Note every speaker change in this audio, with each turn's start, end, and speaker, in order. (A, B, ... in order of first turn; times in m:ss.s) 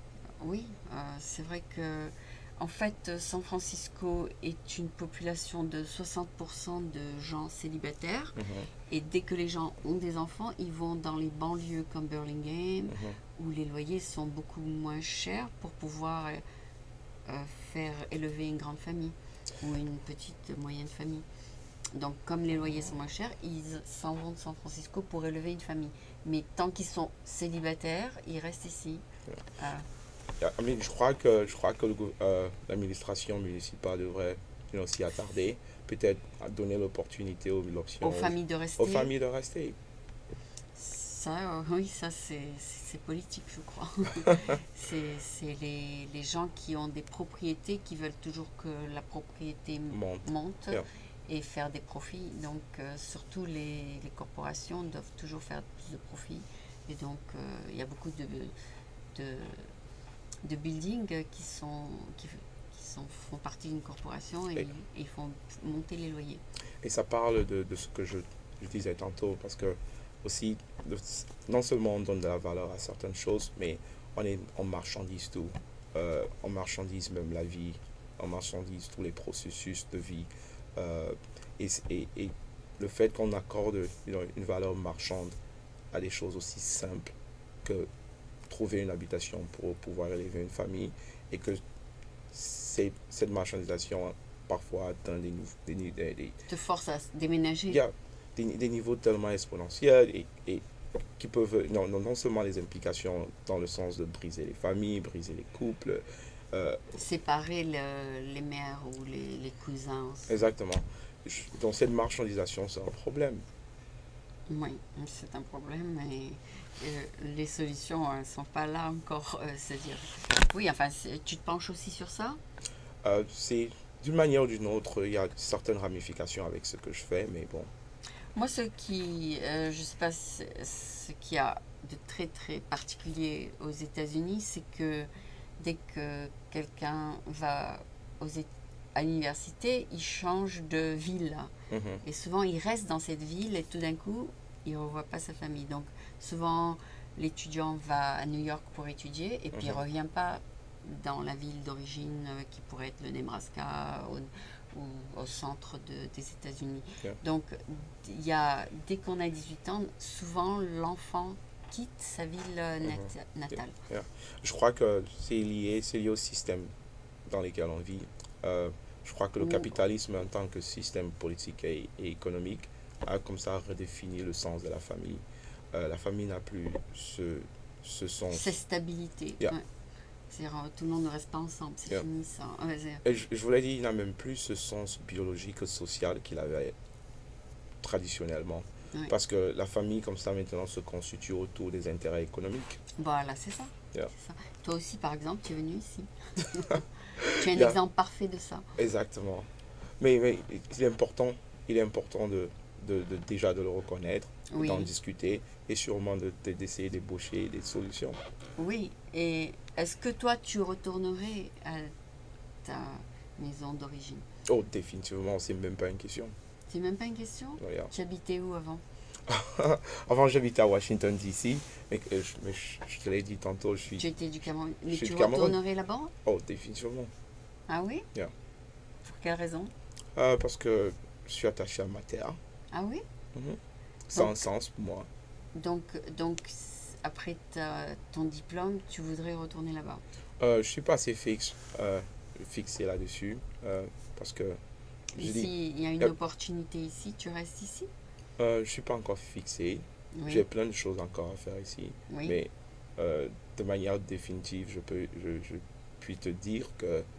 0:00.4-0:16.4 A
0:08.4-0:08.7 B
0:12.9-0:13.2 B
0:17.3-0:21.2 A
0:21.9-0:29.0 A
0:29.6-0:29.9 A
0:30.4-0:39.8 B
0:38.0-0:39.1 A
0:40.8-0:58.5 A
0:44.3-0:44.5 B
0:49.9-0:50.8 B
0:59.1-0:59.7 A
1:00.4-1:06.4 A
1:06.8-1:25.4 B
1:25.9-1:27.9 B
1:28.5-1:31.6 B
1:32.3-1:36.4 B
1:36.5-1:37.8 A
1:37.7-1:40.6 B
1:41.2-1:46.8 B
1:46.9-1:50.4 A
1:50.3-1:53.4 B
1:54.5-2:02.4 A
2:03.0-2:07.7 B
2:08.4-2:21.5 A
2:21.7-2:22.0 B
2:22.0-2:43.8 A
2:29.5-2:29.8 B
2:42.8-2:43.1 B
2:43.9-2:46.7 B
2:47.3-2:55.2 B
2:49.4-2:49.7 A
2:55.7-2:58.5 B
2:58.3-2:59.6 A
3:00.3-3:03.0 A
3:03.0-3:06.8 B
3:07.8-3:12.8 B
3:13.0-3:18.7 A
3:17.2-3:17.8 B
3:18.8-3:19.5 B
3:20.0-3:28.2 B
3:24.5-3:24.9 A
3:28.6-3:31.9 A
3:32.6-3:34.2 A
3:34.5-3:36.4 B
3:36.7-3:38.8 A
3:37.6-3:37.9 B
3:39.3-3:44.1 B
3:44.0-3:46.1 A
3:44.9-3:45.6 B
3:46.2-3:47.1 B
3:47.7-3:48.1 A
3:49.0-3:49.7 A
3:50.2-3:52.4 B
3:52.7-3:53.0 A
3:53.3-3:55.1 B
3:54.2-3:54.4 A
3:55.6-4:00.0 A
4:00.4-4:04.6 B
4:05.2-4:06.1 B
4:05.2-4:07.9 A
4:08.4-4:17.1 B
4:10.2-4:10.4 A
4:12.1-4:12.4 A